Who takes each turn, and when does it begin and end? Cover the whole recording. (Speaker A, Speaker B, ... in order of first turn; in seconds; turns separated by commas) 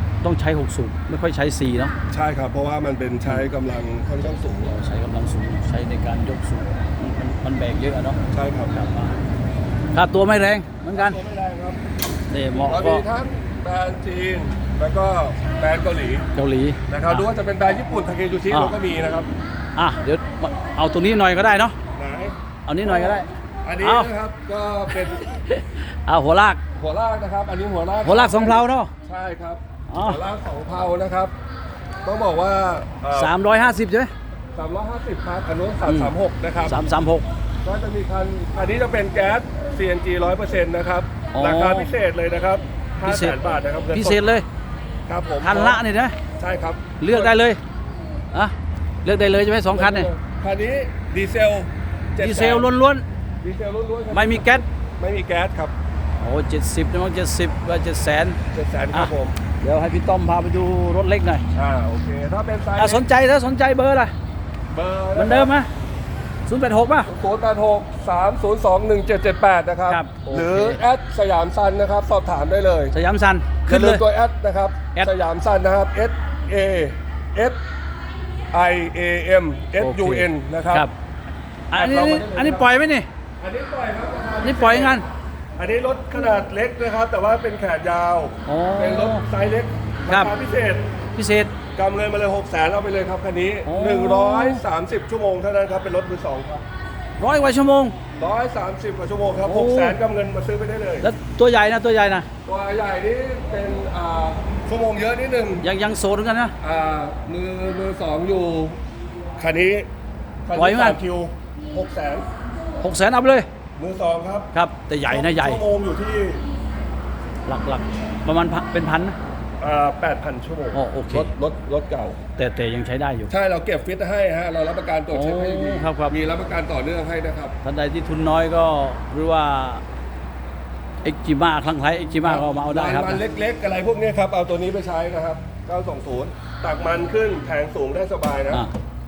Speaker A: 0.2-1.9, Speaker B: 2.1-4.8, Speaker A: 4.6-8.2, Speaker B: 8.3-8.7, Speaker A: 8.7-9.2, Speaker A: 9.9-11.2, Speaker B: 10.9-11.8, Speaker A: 12.3-13.0, Speaker B: 12.6-16.2, Speaker A: 16.3-17.2, Speaker B: 16.9-19.3, Speaker A: 18.5-18.8, Speaker A: 19.8-21.7, Speaker B: 21.9-25.3, Speaker A: 22.7-23.3, Speaker A: 23.8-24.1, Speaker A: 24.9-26.6, Speaker B: 26.7-31.3, Speaker A: 28.0-28.9, Speaker A: 29.9-30.2, Speaker B: 32.0-33.3, Speaker A: 33.1-34.1, Speaker B: 34.5-36.8, Speaker A: 35.9-36.1, Speaker A: 36.6-37.3, Speaker B: 37.6-44.2, Speaker A: 41.3-41.9, Speaker A: 43.0-43.4, Speaker A: 43.9-44.4, Speaker B: 45.1-45.8, Speaker A: 45.4-46.1, Speaker B: 46.4-47.4, Speaker A: 47.0-47.6, Speaker A: 49.0-50.1, Speaker B: 49.7-52.7, Speaker A: 52.2-53.0, Speaker B: 53.4-55.7, Speaker A: 54.1-54.6, Speaker A: 56.2-58.4, Speaker B: 58.5-59.4, Speaker A: 58.9-61.4, Speaker B: 61.5-63.0, Speaker A: 62.8-64.1, Speaker B: 64.7-65.5, Speaker A: 65.1-65.7, Speaker A: 66.5-67.1, Speaker B: 67.0-72.9, Speaker A: 69.9-70.8, Speaker A: 72.9-74.0, Speaker B: 73.7-77.6, Speaker B: 78.5-80.9, Speaker A: 79.8-80.9, Speaker A: 81.7-83.1, Speaker B: 81.7-82.7, Speaker B: 83.4-85.0, Speaker A: 84.4-85.0, Speaker B: 85.6-90.8, Speaker A: 88.5-89.2, Speaker A: 91.1-91.5, Speaker B: 91.7-96.6, Speaker A: 93.7-94.6, Speaker A: 97.2-98.0, Speaker B: 98.2-101.1, Speaker A: 99.4-100.0, Speaker A: 101.0-102.3, Speaker B: 102.5-105.7, Speaker A: 105.6-106.5, Speaker B: 106.6-108.8, Speaker B: 109.4-109.9, Speaker B: 110.5-112.3, Speaker A: 110.5-111.0, Speaker A: 112.8-113.5, Speaker B: 113.8-114.5, Speaker A: 114.5-115.6, Speaker B: 115.1-116.4, Speaker A: 117.5-119.2, Speaker B: 119.6-122.2, Speaker A: 120.7-121.3, Speaker A: 122.4-123.3, Speaker B: 123.3-127.5, Speaker A: 125.1-126.1, Speaker A: 127.6-129.8, Speaker A: 131.0-133.2, Speaker B: 132.2-138.6